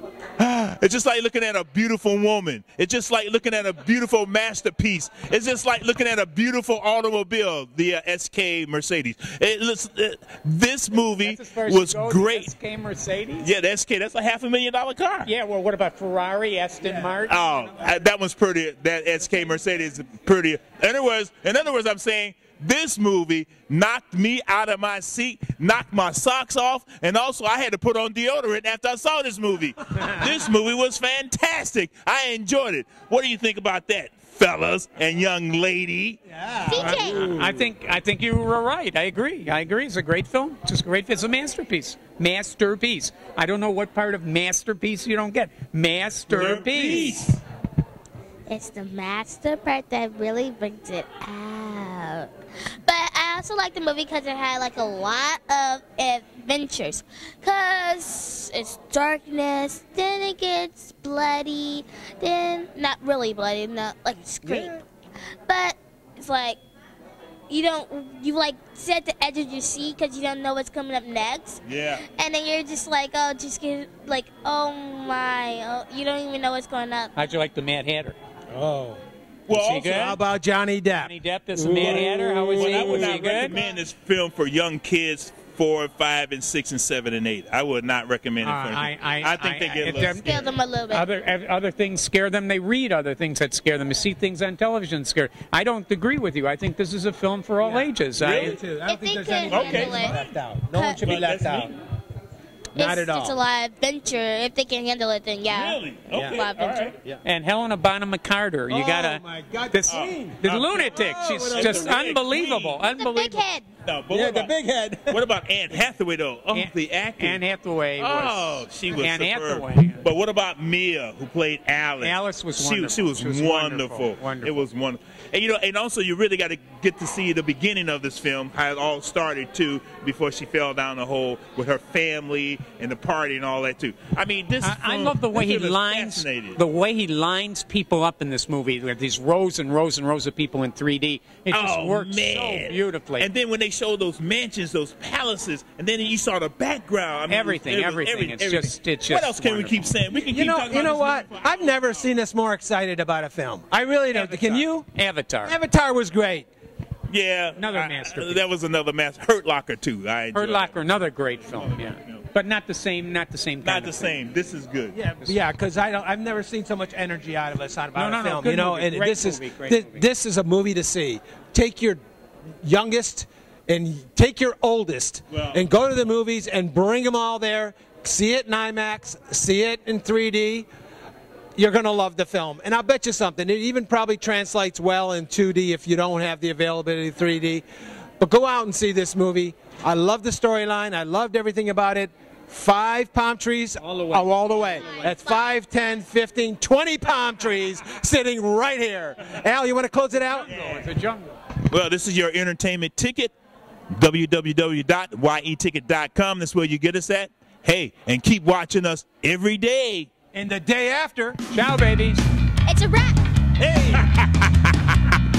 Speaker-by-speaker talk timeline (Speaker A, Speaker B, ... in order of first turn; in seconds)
Speaker A: 0.4-12.5, 13.4-15.3, 17.3-36.2, 37.0-37.4, 46.3-47.4, 71.7-72.0, 79.5-80.2, 81.7-90.3, 98.2-98.6, 99.5-100.2, 101.0-101.8, 105.5-107.0, 109.9-112.8, 113.8-114.5, 115.1-117.4, 118.0-136.6, 141.5-152.1, 157.1-162.2, 163.6-165.0, 175.3-175.6, 200.5-200.8, 201.7-203.3, 203.9-210.1, 213.9-215.1
Speaker B: 11.0-13.5, 15.2-17.5, 36.8-47.2, 77.1-78.2, 79.5-80.2, 81.0-83.6, 88.4-98.6, 107.2-113.5, 116.5-120.1, 122.0-124.7, 134.6-143.3, 147.3-150.0, 154.1-155.6, 157.6-158.4, 160.3-164.2, 167.9-170.0, 193.9-194.4, 200.3-201.3, 211.5-212.2
Speaker C: 36.3-37.5, 64.4-64.8, 78.5-79.0, 79.9-81.1, 81.7-82.0, 97.6-101.7, 102.7-103.4, 106.1-106.4, 108.7-112.0, 114.1-115.2, 150.2-154.9, 155.4-156.5, 164.9-172.0, 172.6-180.7, 181.6-187.6, 188.2-200.5, 210.3-211.4, 213.6-214.0
Speaker D: 36.6-37.3, 48.5-52.3, 52.8-64.8, 65.5-66.6, 67.5-71.6, 72.1-77.1, 90.0-91.1, 98.8-100.2, 100.7-101.1, 102.7-106.9, 112.9-113.7, 194.9-195.2, 212.7-213.2